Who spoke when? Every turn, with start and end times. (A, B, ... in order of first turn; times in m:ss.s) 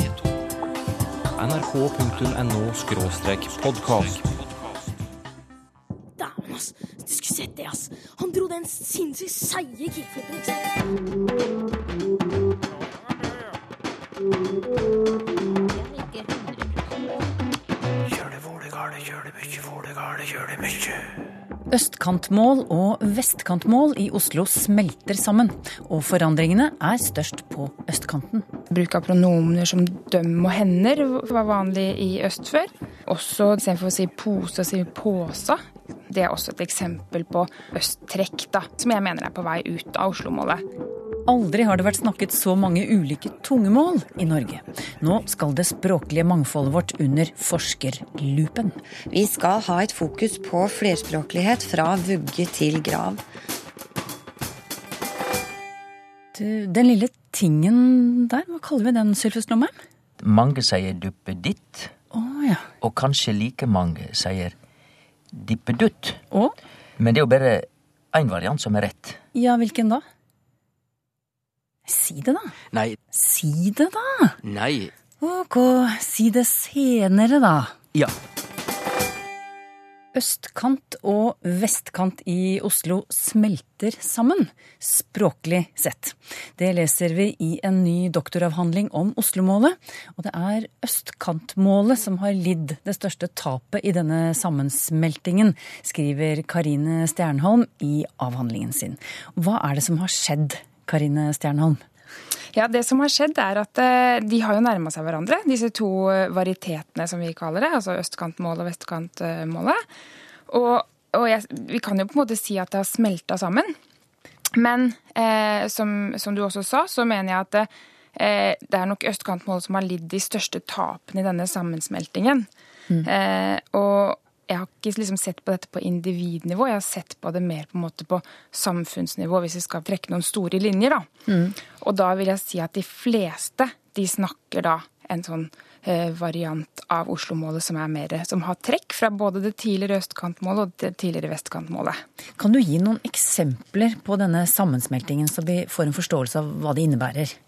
0:01.3-0:04.2 A
0:06.2-0:10.7 B
0:15.7-0:16.7 B
0:21.7-0:28.5 C
0:28.7-0:40.6 D
0:41.2-0:48.8 C
0:49.1-0:53.2 E
0:56.3-0:59.7 C
1:00.2-1:01.9 F
1:02.1-1:02.6 C
1:02.8-1:04.5 F
1:05.3-1:06.2 F
1:07.0-1:09.2 F
1:09.3-1:10.0 C
1:11.8-1:12.5 C
1:13.1-1:14.4 C
1:14.4-1:14.9 F
1:15.2-1:17.7 C
1:20.1-1:41.8 C
1:42.5-1:49.8 D
1:50.5-1:53.7 D
1:54.5-2:02.5 D
2:03.0-2:11.1 D
2:11.3-2:11.5 C
2:11.8-2:22.0 D
2:22.4-2:27.4 C